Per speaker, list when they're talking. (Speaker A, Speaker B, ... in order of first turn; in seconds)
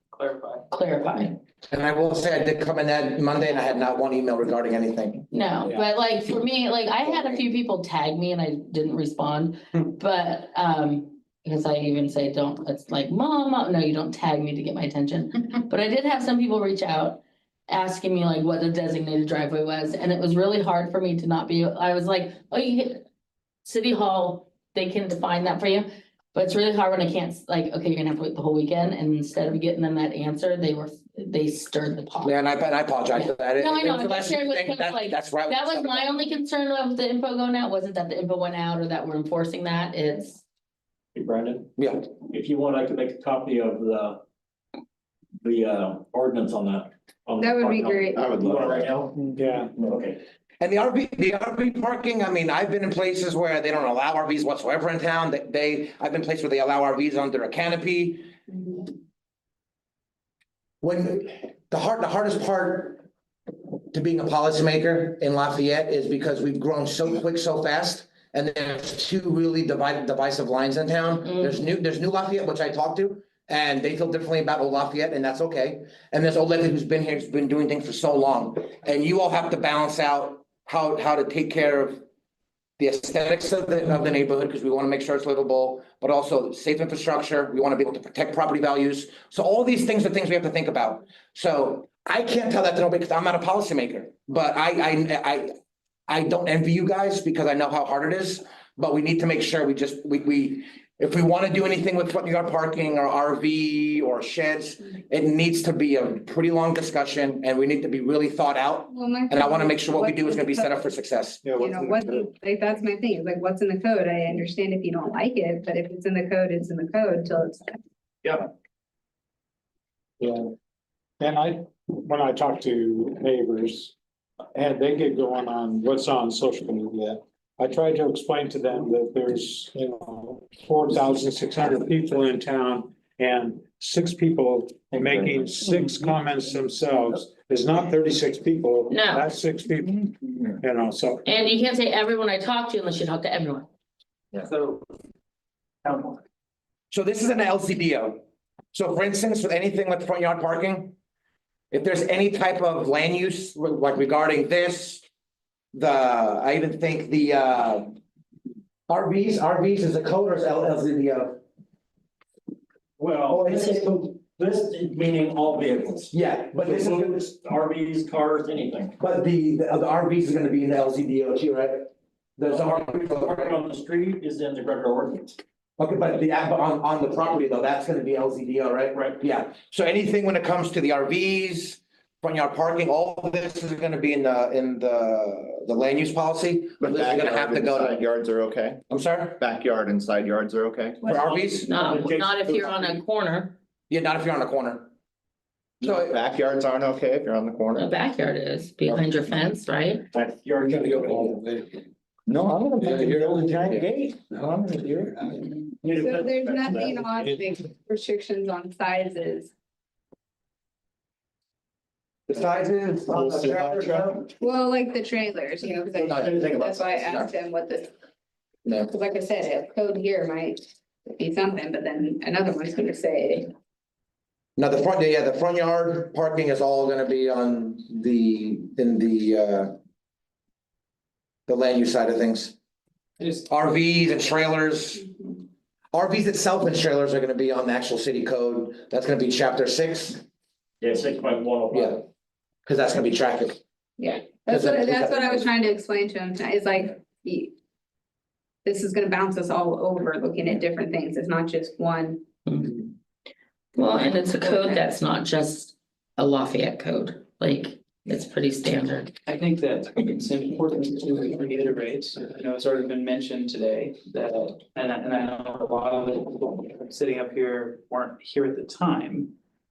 Speaker A: 0.1-0.6, 144.4-144.9, 145.8-146.2, 233.2-233.5, 259.2-269.3
Speaker B: 0.7-1.4, 5.3-23.0, 23.6-32.3, 33.1-40.4, 71.3-71.5, 138.9-139.3, 141.2-143.7, 191.7-193.6, 197.8-200.1, 252.4-252.9, 253.8-259.1
Speaker C: 1.7-5.3, 7.0-7.4, 32.2-36.2, 41.8-42.1, 50.6-58.3, 60.8-63.0, 63.9-82.0, 82.8-95.5, 96.1-111.4, 146.9-148.2, 148.7-150.9, 151.7-155.0, 155.7-158.0, 158.9-161.4, 163.3-164.1, 166.1-167.2, 169.0-173.6, 175.8-188.0, 188.9-189.4, 191.1-191.7, 193.9-194.9, 195.8-196.2, 202.8-203.8, 212.3-214.3, 216.0-217.3, 224.6-229.8, 231.5-232.5, 233.5-235.1, 235.9-240.2, 241.7-242.0, 242.7-243.6, 244.5-245.4
Speaker D: 41.1-41.7, 42.3-44.2, 45.4-49.2, 49.8-50.2, 163.0-168.9, 172.5-175.4, 178.9-179.2, 191.3-193.0, 200.1-201.4, 202.3-205.3, 205.8-207.2, 213.1-214.2, 216.1-216.8, 240.8-242.0
Speaker E: 47.4-48.3, 108.9-110.9, 111.6-117.8, 191.0-191.6, 205.9-209.5, 214.4-217.9, 218.7-223.5, 235.1-235.4, 244.0-247.5, 248.6-252.2, 254.5-254.8
Speaker F: 48.1-48.9, 186.8-188.8, 189.4-191.0, 195.8-197.9
Speaker G: 49.3-49.7, 111.4-112.2, 121.2-123.9, 124.5-141.2, 207.2-207.5